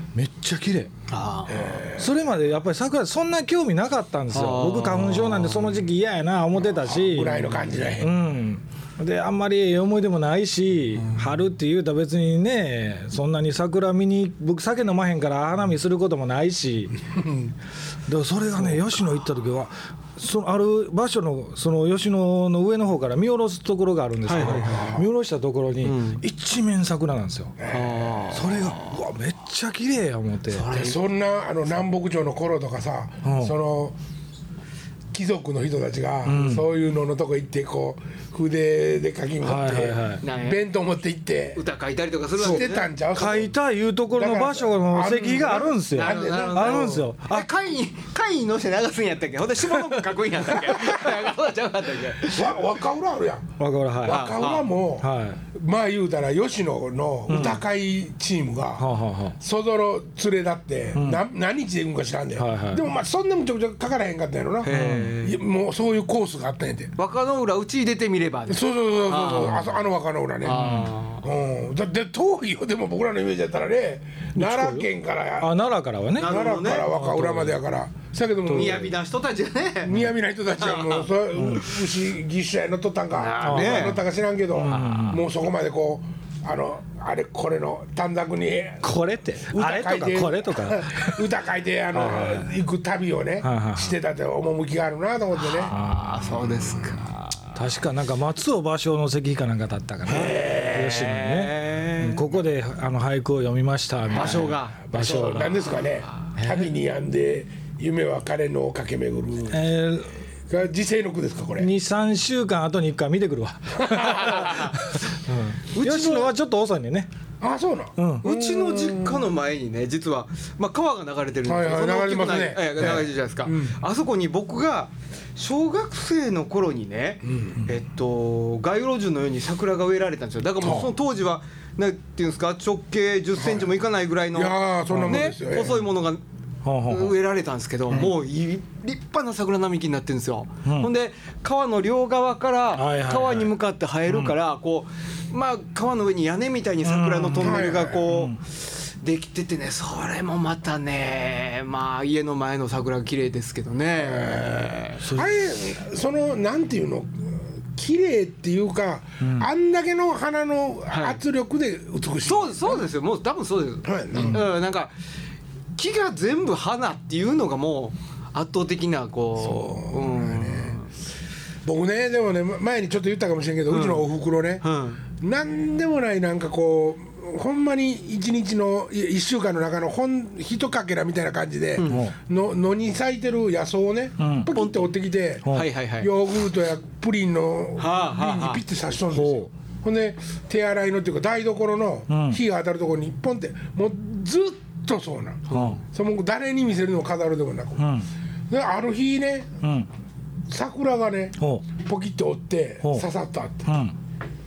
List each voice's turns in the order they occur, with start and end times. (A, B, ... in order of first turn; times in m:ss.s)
0:00.1-0:00.9 A
0:01.1-0:01.9 B
0:01.5-0:02.1 C
0:02.0-0:17.0 A
0:04.3-0:05.8 B
0:06.7-0:08.2 C
0:17.1-0:17.5 C
0:18.1-0:27.6 A
0:24.3-0:24.9 B
0:24.4-0:25.1 C
0:25.8-0:26.2 B
0:27.6-0:28.5 C
0:27.7-0:29.0 B
0:28.3-0:30.7 A
0:30.5-0:31.0 B
0:30.7-0:34.0 C
0:33.2-0:33.6 A
0:35.1-0:41.6 C
0:36.2-0:36.7 A
0:39.4-0:40.2 A
0:40.2-0:40.6 B
0:41.6-0:42.9 B
0:42.4-0:43.5 C
0:42.4-0:47.5 A
0:44.2-0:47.1 C
0:45.9-0:52.6 B
0:52.3-0:53.5 C
0:53.6-0:54.3 A
0:54.0-1:06.9 C
0:54.0-0:54.7 B
0:55.0-0:55.4 A
0:57.3-0:57.6 A
0:58.8-0:59.4 A
1:01.0-1:01.2 A
1:02.4-1:02.8 A
1:04.6-1:05.4 B
1:04.7-1:05.2 A
1:07.0-1:09.8 B
1:08.5-1:15.5 C
1:10.4-1:11.3 B
1:10.5-1:10.9 A
1:14.4-1:14.9 A
1:15.4-1:17.6 A
1:16.2-1:16.9 B
1:16.2-1:18.9 C
1:18.5-1:18.9 A
1:18.5-1:20.1 B
1:19.9-1:28.9 C
1:20.6-1:21.1 B
1:21.3-1:21.7 A
1:23.1-1:24.0 B
1:23.4-1:25.3 A
1:24.6-1:25.1 B
1:28.8-1:31.3 A
1:29.5-1:35.7 C
1:31.9-1:32.5 A
1:33.4-1:34.0 A
1:35.4-1:37.6 B
1:35.7-1:37.0 A
1:37.6-1:45.6 A
1:40.1-1:40.8 C
1:40.1-1:42.3 B
1:44.1-1:49.6 C
1:44.1-1:46.0 B
1:46.4-1:46.7 A
1:49.5-1:50.2 A
1:50.5-1:51.7 C
1:51.6-1:57.1 A
1:53.8-1:54.4 C
1:54.1-1:54.8 B
1:55.7-1:56.3 B
1:57.4-1:59.3 C
1:58.0-1:58.2 A
1:58.2-2:16.2 B
2:01.4-2:03.8 C
2:07.2-2:07.7 C
2:10.6-2:10.9 C
2:13.4-2:13.8 C
2:14.3-2:15.9 C
2:14.9-2:15.3 A
2:16.6-2:17.2 A
2:16.9-2:35.0 B
2:20.6-2:20.9 A
2:22.7-2:23.5 A
2:24.1-2:24.3 A
2:26.8-2:28.4 A
2:27.4-2:28.1 C
2:34.0-2:42.8 C
2:35.0-2:35.4 A
2:39.2-2:39.5 A
2:40.9-2:41.2 B
2:42.2-2:44.9 B
2:43.8-2:44.5 C
2:44.1-2:44.4 A
2:45.8-2:50.9 B
2:49.4-2:50.8 C
2:51.6-2:54.6 C
2:53.7-2:54.0 B
2:54.6-2:55.0 B
2:55.2-3:18.0 C
3:01.8-3:02.1 B
3:01.8-3:02.2 A
3:04.2-3:04.5 A
3:04.5-3:04.9 B
3:05.5-3:06.1 B
3:07.8-3:08.6 B
3:09.1-3:09.5 A
3:12.1-3:12.4 A
3:15.5-3:15.8 B
3:15.5-3:15.8 A
3:17.8-3:18.1 A
3:18.5-3:19.5 C
3:19.6-3:19.9 A
3:20.5-3:23.7 C
3:21.4-3:21.7 A
3:23.7-3:24.0 A